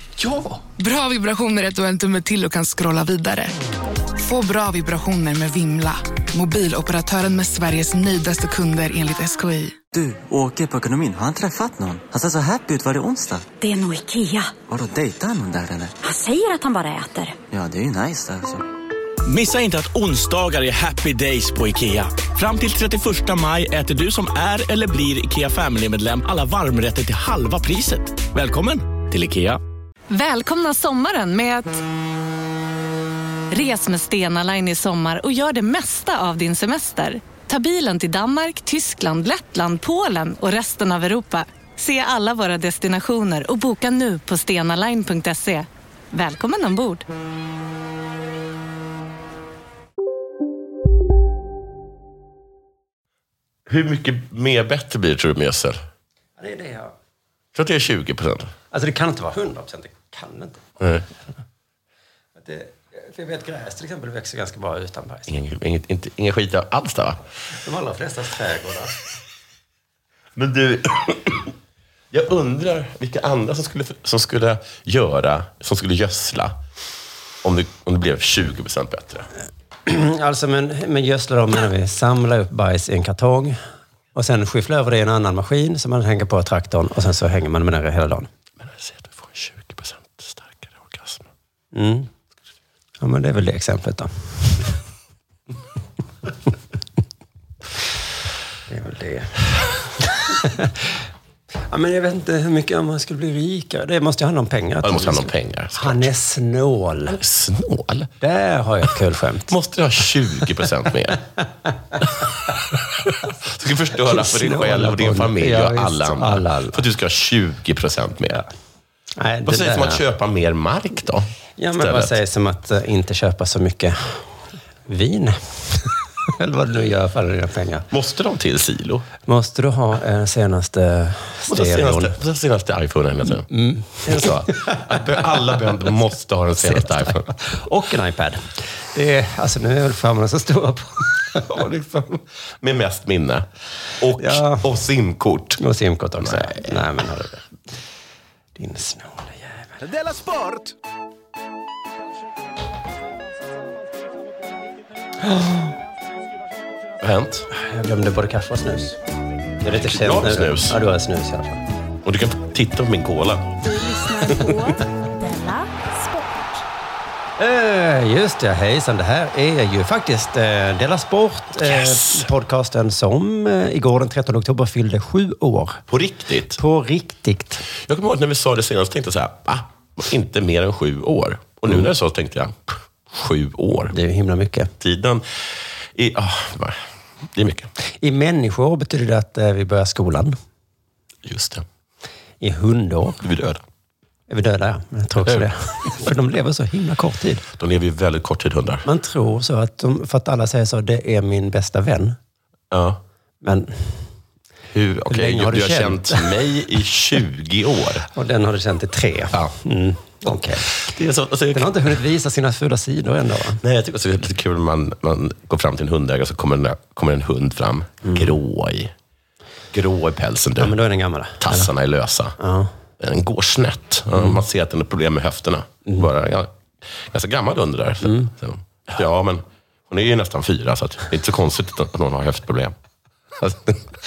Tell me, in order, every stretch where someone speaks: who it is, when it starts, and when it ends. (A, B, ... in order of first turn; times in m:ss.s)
0:00.2-0:00.6 A
0:00.8-0:03.5 B
0:04.2-0:09.8 B
0:09.9-0:13.5 C
0:13.6-0:14.6 D
0:14.7-0:16.0 C
0:16.0-0:17.4 D
0:17.5-0:18.6 C
0:19.3-0:29.6 A
0:30.1-0:31.8 E
0:33.5-0:47.0 E
0:53.7-0:55.8 F
0:56.4-0:56.9 G
0:57.5-0:58.5 F
0:58.7-1:00.8 G
1:02.4-1:05.3 G
1:05.3-1:07.2 F
1:07.6-1:08.9 G
1:10.4-1:11.5 F
1:12.1-1:16.6 F
1:17.4-1:19.3 F
1:19.9-1:23.6 G
1:24.2-1:28.3 G
1:28.6-1:31.3 F
1:31.7-1:32.1 G
1:33.0-1:34.6 G
1:38.7-1:39.5 G
1:40.0-1:41.0 G
1:41.7-1:47.2 G
1:44.8-1:46.1 F
1:47.1-1:48.1 F
1:48.2-1:49.5 G
1:49.5-1:51.2 F
1:53.1-1:58.4 F
1:54.0-1:56.8 G
1:59.2-2:00.0 G
1:59.5-2:02.1 F
2:01.6-2:04.3 G
2:04.9-2:07.9 G
2:07.9-2:09.1 F
2:09.3-2:12.2 G
2:11.5-2:13.5 F
2:13.5-2:15.7 G
2:14.0-2:17.3 F
2:16.6-2:21.6 G
2:21.4-2:23.5 F
2:24.0-2:25.6 F
2:24.2-2:24.7 G
2:25.6-2:27.5 G
2:26.2-2:26.6 F
2:28.6-2:29.8 G
2:30.1-2:30.5 A
2:35.2-2:35.7 G
2:37.0-2:37.5 F
2:37.5-2:39.0 G
2:39.6-2:41.6 G
2:39.7-2:40.8 F
2:42.0-2:43.5 F
2:43.6-2:46.6 H
2:47.4-2:55.8 G
2:51.6-2:52.3 F
2:55.9-2:56.6 F
2:56.6-2:57.6 G
2:57.8-3:03.9 F
3:03.9-3:04.7 G
3:04.8-3:05.2 F
3:06.0-3:06.8 F
3:07.3-3:07.7 F
3:08.0-3:10.4 G
3:11.2-3:11.6 F
3:12.4-3:13.2 G
3:13.2-3:13.6 F
3:14.3-3:17.4 G
3:17.6-3:18.9 F
3:18.8-3:22.2 G
3:22.7-3:23.0 F
3:23.4-3:24.0 G
3:24.7-3:28.1 F
3:25.1-3:26.4 G
3:28.1-3:30.7 G
3:30.3-3:31.8 F
3:31.5-3:33.6 G
3:33.6-3:38.9 F
3:38.0-3:38.4 G
3:39.7-3:40.8 F
3:40.6-3:41.7 G
3:41.4-3:42.4 F
3:42.4-3:42.7 G
3:43.0-3:52.7 F
3:48.0-3:48.3 G
3:53.4-3:53.8 F